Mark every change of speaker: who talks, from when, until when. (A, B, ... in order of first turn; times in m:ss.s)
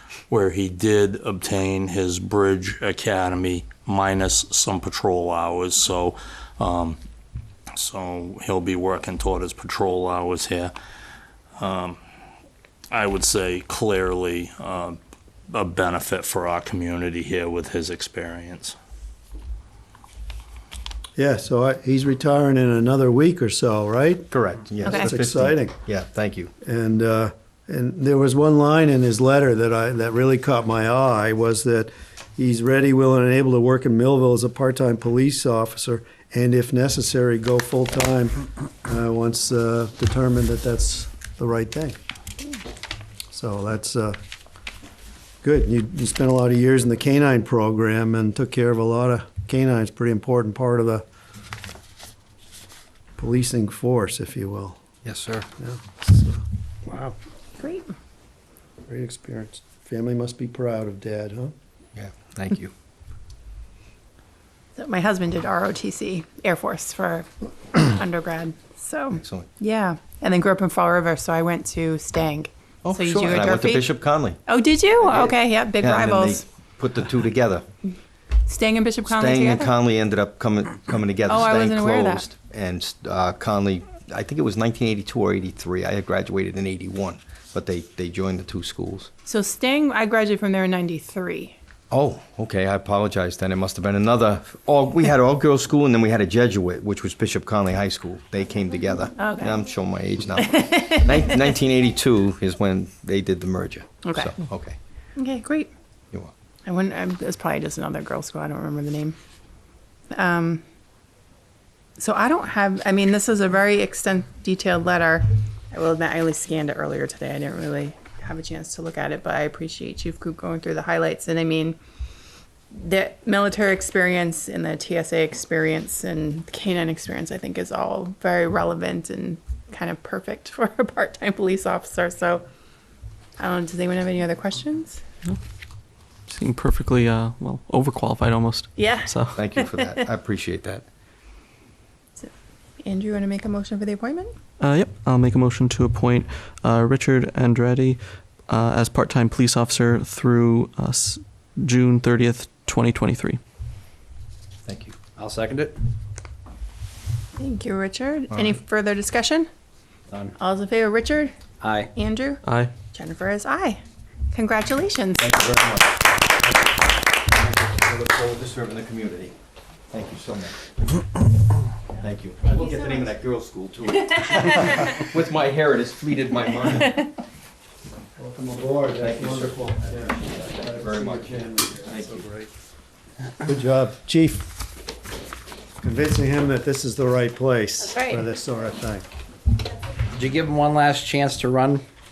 0:00.3-0:07.0 A
0:07.8-0:10.7 A
0:11.6-0:12.0 A
0:12.9-0:15.0 A
0:15.5-0:18.8 A
0:21.2-0:25.8 B
0:24.3-0:26.5 C
0:24.8-0:25.1 D
0:26.6-0:42.0 B
0:43.3-0:44.2 B
0:45.4-0:51.0 B
0:53.2-0:54.8 B
0:55.0-0:55.5 C
0:55.6-0:57.1 B
0:57.6-0:57.9 D
0:58.9-1:01.5 B
1:01.9-1:02.7 C
1:04.7-1:13.9 D
1:09.2-1:09.5 C
1:12.8-1:14.4 C
1:14.4-1:16.4 D
1:15.0-1:17.6 C
1:18.5-1:19.7 D
1:19.0-1:29.1 C
1:21.2-1:22.2 D
1:29.2-1:31.6 D
1:31.9-1:44.8 C
1:39.2-1:39.6 D
1:40.4-1:41.2 D
1:44.0-1:44.3 D
1:45.2-1:45.7 D
1:46.6-1:49.2 D
1:50.1-1:50.6 D
1:52.0-2:01.8 D
2:02.7-2:12.4 D
2:13.4-2:15.0 D
2:16.3-2:19.4 E
2:18.8-2:19.9 D
2:19.3-2:20.8 C
2:22.2-2:24.3 D
2:24.6-2:33.4 E
2:34.6-2:35.0 C
2:35.2-2:35.8 F
2:37.4-2:39.5 D
2:40.4-2:41.3 D
2:41.6-2:41.9 F
2:41.9-2:43.8 D
2:42.4-2:42.7 E
2:44.3-2:45.2 D
2:45.2-2:46.5 C
2:47.2-2:49.3 C
2:49.9-2:50.6 C
2:52.0-2:57.1 C
2:58.2-3:02.5 B
2:59.0-3:02.2 C
3:03.4-3:04.5 B
3:05.8-3:09.0 B
3:07.9-3:08.2 D
3:10.2-3:11.8 F